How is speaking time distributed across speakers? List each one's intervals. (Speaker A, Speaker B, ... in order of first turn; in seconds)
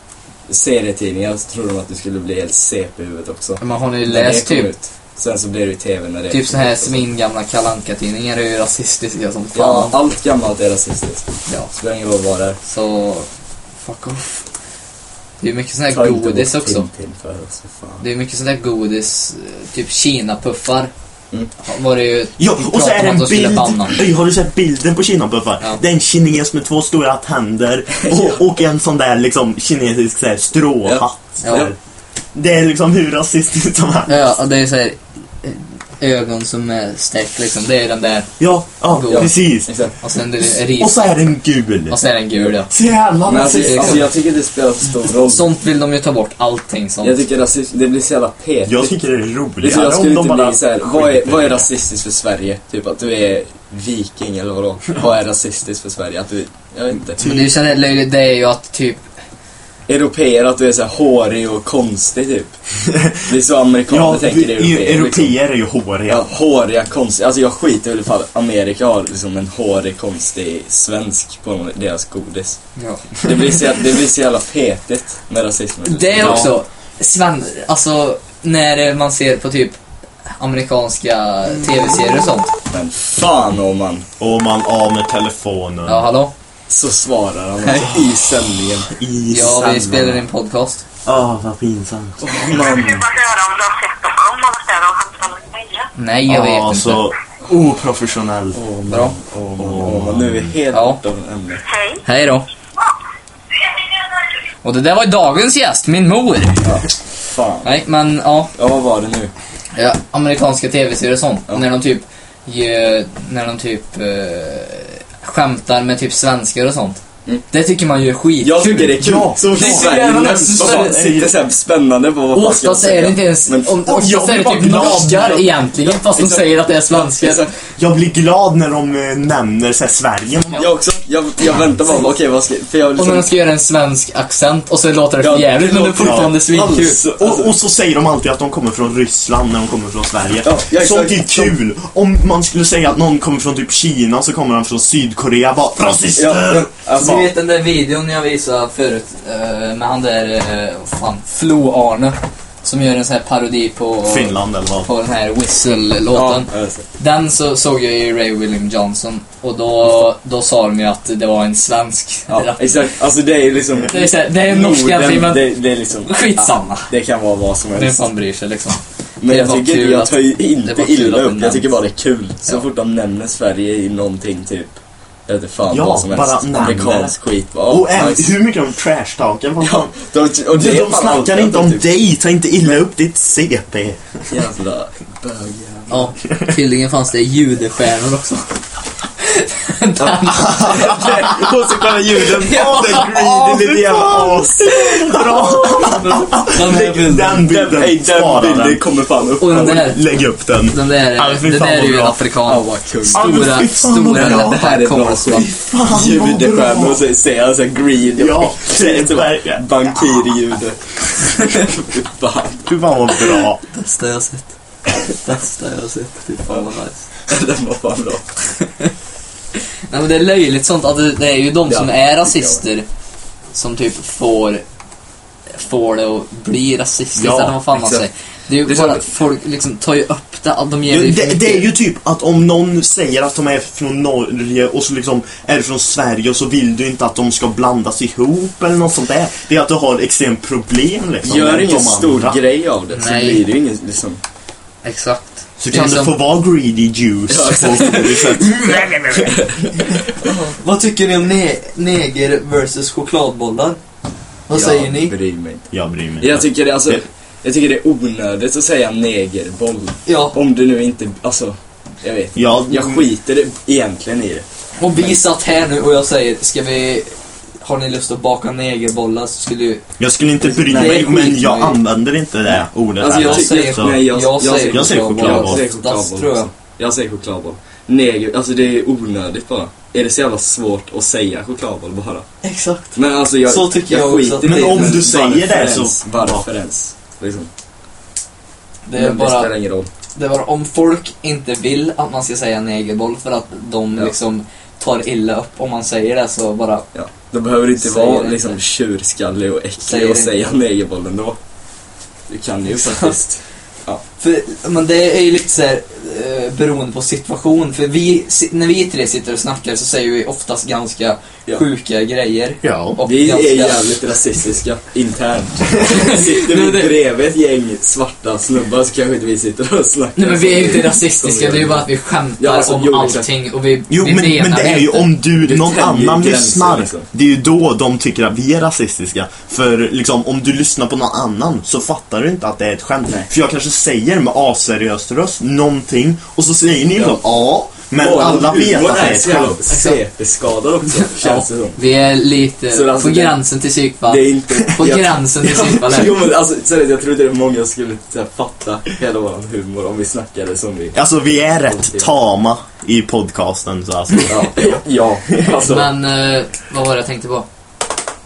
Speaker A: 0.5-7.1, 9.5-12.6, 15.9-18.0, 30.8-31.7, 39.1-40.0, 43.3-45.5, 47.0-49.0, 49.6-57.2, 59.9-62.5, 63.2-65.3, 66.1-72.6, 73.2-76.5, 82.7-84.1, 86.7-88.9, 92.2-93.0, 98.5-101.6, 106.6-107.8, 108.5-109.3, 118.4-123.8, 124.7-127.5, 130.6-133.3, 135.2-137.6, 140.4-141.6, 146.2-147.3, 156.1-156.9, 162.3-168.1, 169.2-178.3, 179.6-181.9, 184.3-186.1, 190.0-195.2, 197.5-199.9, 202.5-203.5, 204.1-212.7, 217.3-218.3, 221.7-222.6, 227.7-228.1, 228.7-229.1, 241.2-244.2, 247.3-248.3, 249.1-250.5, 254.5-255.7, 256.2-264.5, 270.6-271.1, 273.0-282.3, 282.9-287.5, 288.9-289.9, 296.9-301.4, 302.3-304.0, 313.1-323.3, 325.4-327.1, 336.9-337.2, 338.0-341.8, 342.7-343.4, 344.1-351.0, 351.7-352.1, 354.2-355.9
Speaker B: 3.6-4.7, 6.3-10.0, 12.7-13.3, 13.8-14.4, 15.4-16.9, 18.0-20.9, 21.6-24.0, 31.4-31.7, 34.1-38.3, 38.9-39.3, 40.0-41.1, 41.9-42.7, 43.5-44.1, 45.2-47.2, 57.2-59.0, 72.8-73.4, 75.8-79.8, 80.3-82.5, 85.9-86.3, 89.3-90.8, 96.0-97.1, 98.9-99.2, 100.7-101.0, 102.0-102.5, 104.6-106.7, 107.6-108.5, 109.8-121.2, 122.3-127.5, 133.0-137.0, 147.0-162.7, 163.9-165.5, 166.1-166.9, 167.8-171.8, 185.9-188.6, 189.2-191.3, 192.4-193.1, 194.7-197.5, 199.4-200.0, 200.7-205.5, 213.7-214.5, 215.0-217.0, 218.6-218.9, 219.9-222.9, 223.5-224.6, 225.5-231.7, 242.9-243.4, 244.8-246.1, 247.9-249.4, 250.5-253.8, 254.5-255.1, 260.1-260.4, 264.8-269.8, 270.4-271.8, 273.0-276.5, 282.4-285.0, 288.9-289.5, 290.1-296.9, 297.8-298.6, 299.9-300.3, 302.7-303.1, 304.2-313.9, 315.9-316.9, 320.2-325.1, 339.7-340.0, 341.2-346.2, 355.5-357.5
Speaker C: 22.4-31.8, 32.3-34.2, 38.4-39.7, 40.6-42.0, 42.7-44.1, 48.7-51.7, 57.2-57.5, 62.9-63.2, 63.9-66.3, 76.2-76.5, 84.2-86.0, 88.8-90.3, 91.0-92.7, 96.3-98.6, 99.6-100.5, 119.0-121.4, 123.8-125.5, 127.8-130.7, 136.0-147.3, 154.1-154.9, 175.7-177.2, 177.7-179.9, 180.5-184.3, 190.4-191.5, 192.4-198.8, 199.5-202.2, 203.1-204.7, 205.3-207.0, 208.2-209.6, 212.7-213.6, 227.2-227.6, 230.9-242.4, 245.6-249.3, 255.7-257.0, 262.4-263.1, 270.0-274.1, 274.6-275.6, 284.4-286.4, 312.6-313.0, 323.9-339.6, 350.9-354.8
Speaker D: 92.5-95.9, 101.7-102.0